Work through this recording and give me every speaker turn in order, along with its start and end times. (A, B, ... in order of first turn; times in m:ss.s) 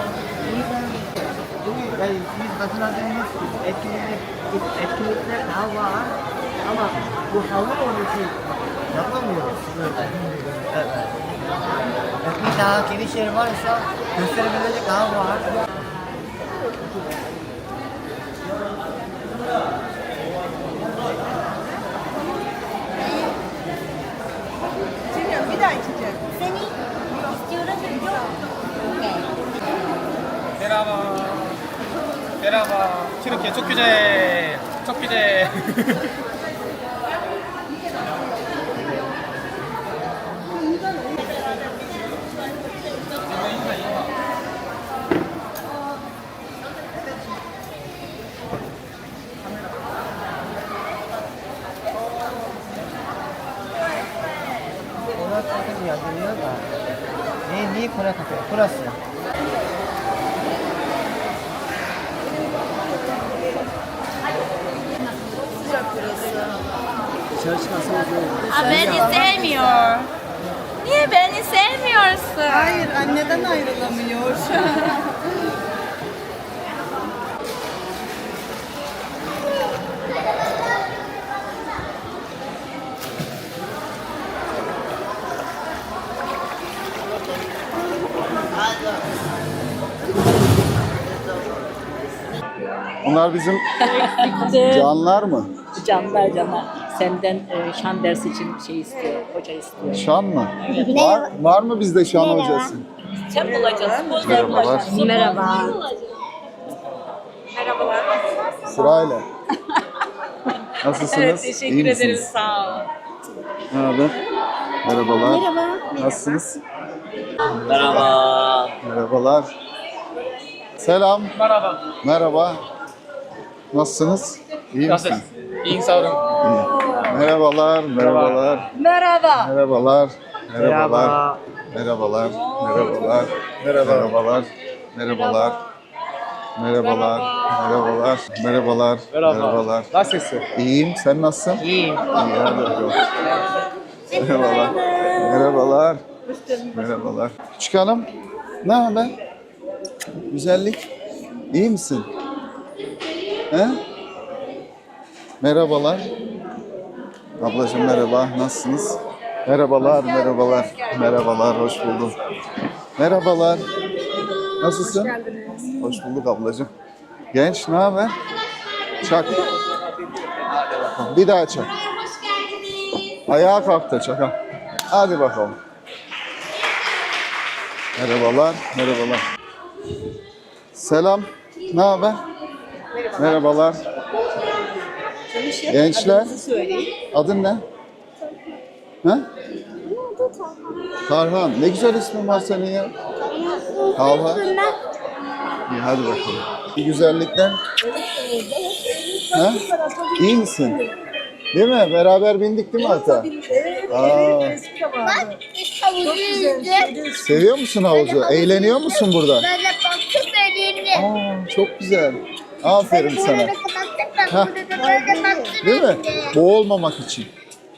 0:00.5-0:01.0 A
0:01.6-0:08.4 A
0:08.9-0:11.1 A
0:12.2-0:15.5 A
0:25.2-0:26.2 B
0:27.5-0:27.9 C
0:32.4-0:35.5 D
0:55.1-0:56.6 A
0:57.4-0:59.0 A
1:05.8-1:06.5 B
1:07.5-1:08.4 A
1:08.4-1:10.1 E
1:08.7-1:09.4 B
1:10.8-1:12.9 E
1:12.5-1:15.0 B
1:33.0-1:33.6 F
1:34.1-1:34.6 E
1:34.6-1:35.5 F
1:36.0-1:39.3 G
1:39.9-1:42.8 F
1:40.8-1:41.3 C
1:42.1-1:42.7 C
1:43.4-1:45.4 G
1:43.4-1:44.2 B
1:43.7-1:45.9 E
1:44.2-1:45.1 F
1:45.0-1:45.7 C
1:48.6-1:49.2 F
1:50.8-1:52.3 F
1:51.2-1:52.8 G
1:53.7-1:54.2 F
1:54.8-1:56.6 F
1:55.2-1:55.8 C
1:57.4-1:58.3 F
1:58.8-1:59.5 F
2:00.8-2:02.6 F
2:03.7-2:05.2 F
2:05.7-2:06.3 D
2:06.3-2:08.7 F
2:08.9-2:09.3 G
2:09.4-2:11.2 F
2:10.6-2:11.4 A
2:11.7-2:15.6 F
2:16.6-2:19.9 F
2:20.5-2:23.0 F
2:24.1-2:26.0 F
2:24.2-2:25.2 C
2:26.7-2:28.1 F
2:28.6-2:29.1 F
2:30.3-2:30.8 F
2:31.5-2:32.1 F
2:33.5-2:33.8 F
2:35.4-2:36.1 F
2:37.4-2:42.1 F
2:43.0-2:43.6 F
2:44.6-2:45.1 F
2:44.8-2:45.8 B
2:45.8-2:46.7 F
2:47.3-2:48.1 F
2:49.0-2:49.5 F
2:50.8-2:51.7 F
2:53.1-2:54.4 F
2:54.9-2:55.6 F
2:58.0-2:59.2 F
3:00.7-3:02.2 F
3:03.1-3:03.8 F
3:05.3-3:06.9 B
3:05.7-3:06.4 F
3:07.0-3:07.6 F
3:10.0-3:10.3 C
3:11.0-3:12.9 F
3:13.3-3:14.7 C
3:13.9-3:14.5 F
3:15.7-3:17.6 F
3:18.2-3:20.5 B
3:19.3-3:19.6 F
3:20.2-3:20.8 F
3:21.5-3:23.3 F
3:22.8-3:25.3 B
3:23.9-3:24.6 F
3:25.0-3:27.0 C
3:26.0-3:27.4 B
3:27.2-3:29.5 F
3:27.9-3:31.1 C
3:30.9-3:33.5 F
3:32.8-3:36.4 C
3:34.3-3:34.6 F
3:34.8-3:35.5 B
3:35.6-3:37.3 F